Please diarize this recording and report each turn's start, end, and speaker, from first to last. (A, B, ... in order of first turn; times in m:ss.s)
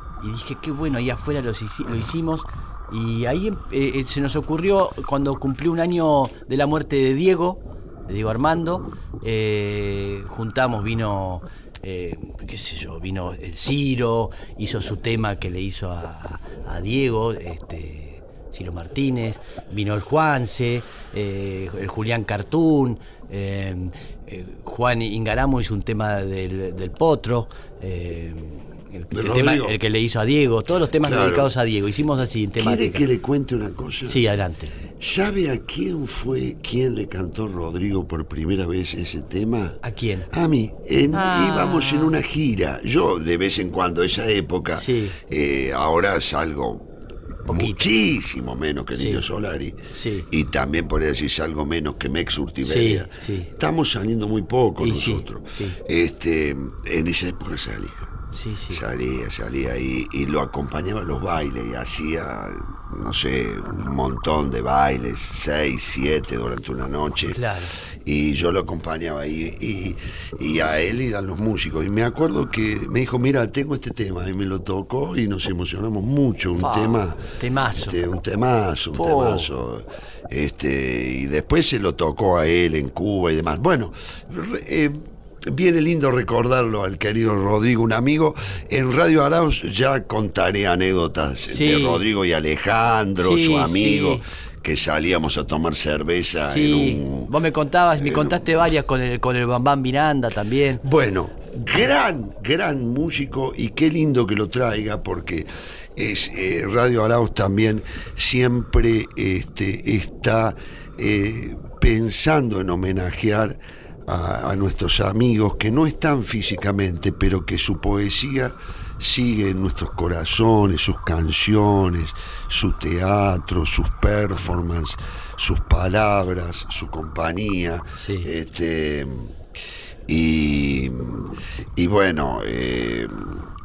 0:00.2-0:33.0 A
0:29.1-0:29.8 B
0:31.0-0:31.5 B
0:32.6-0:34.2 B
0:34.1-0:34.7 A
0:35.0-0:39.8 B
0:39.8-0:40.3 A
0:40.3-0:46.9 B
0:41.1-0:42.2 A
0:44.8-0:45.2 A
0:47.4-0:47.9 A
0:47.5-0:49.8 B
0:48.9-0:49.2 A
0:49.9-0:50.3 A
0:50.3-0:58.1 B
0:52.6-0:53.5 A
0:54.8-0:55.8 A
0:58.3-0:58.8 A
0:58.7-1:37.3 B
1:07.3-1:07.7 A
1:16.6-1:18.0 A
1:18.9-1:19.5 A
1:31.5-1:32.0 A
1:33.2-1:34.2 A
1:36.4-1:40.8 A
1:38.0-1:38.4 B
1:40.8-2:09.3 B
2:08.0-2:08.3 A
2:10.1-2:13.5 B